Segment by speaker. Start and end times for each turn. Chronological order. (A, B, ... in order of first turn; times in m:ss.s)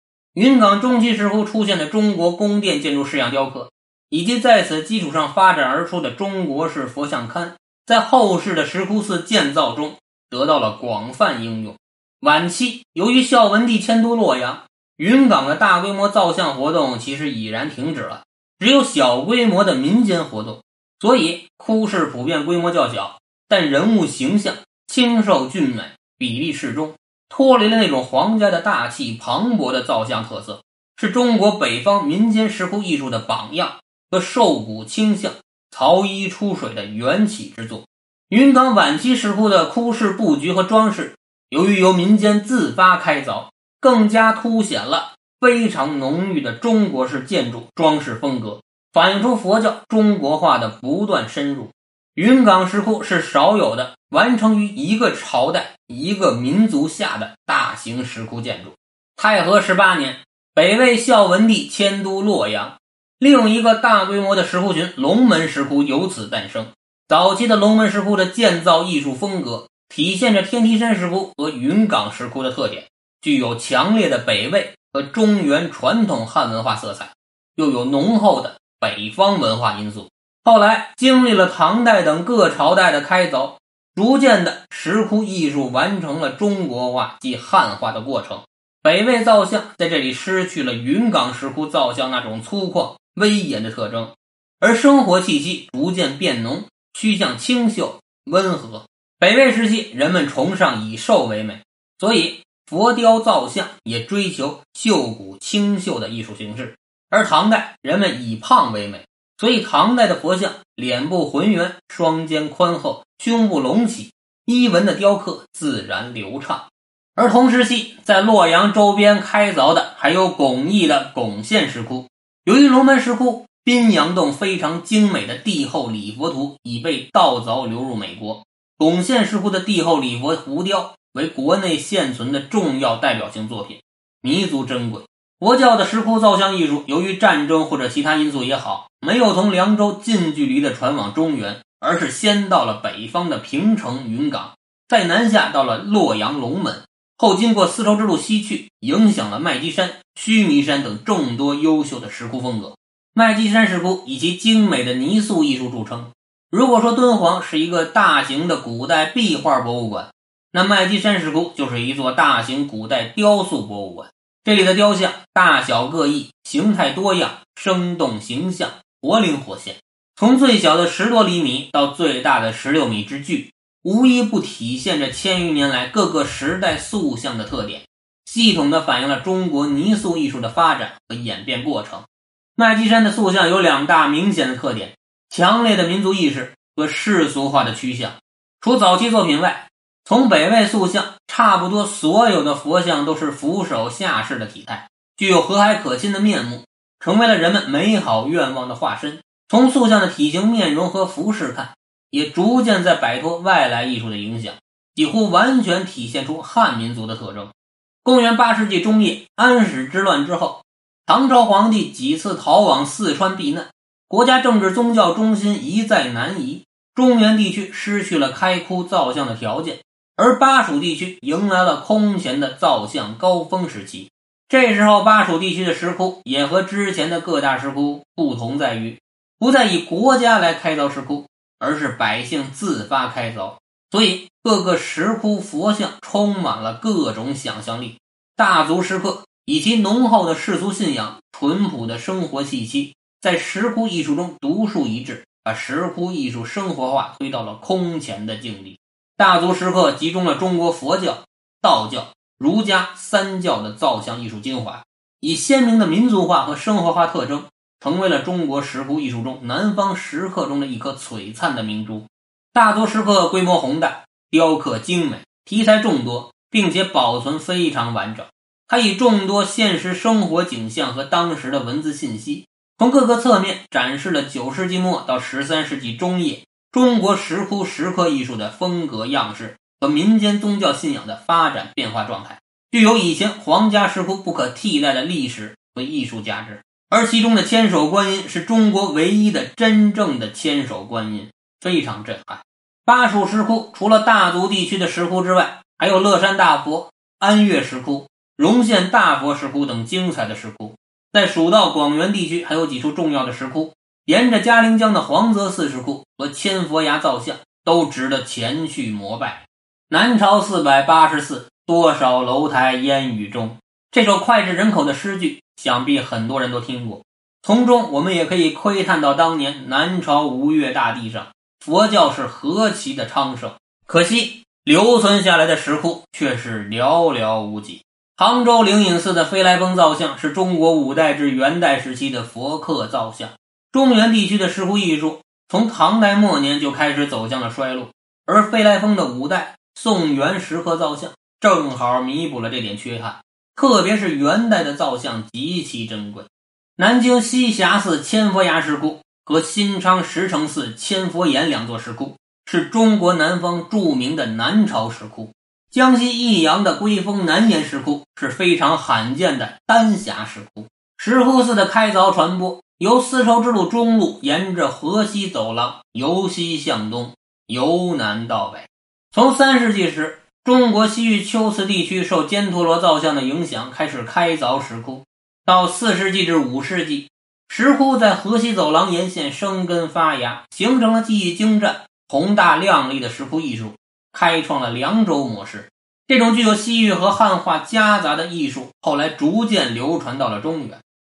0:00.3-1:56.6 A
1:57.2-3:27.5 A
3:28.0-6:30.8 A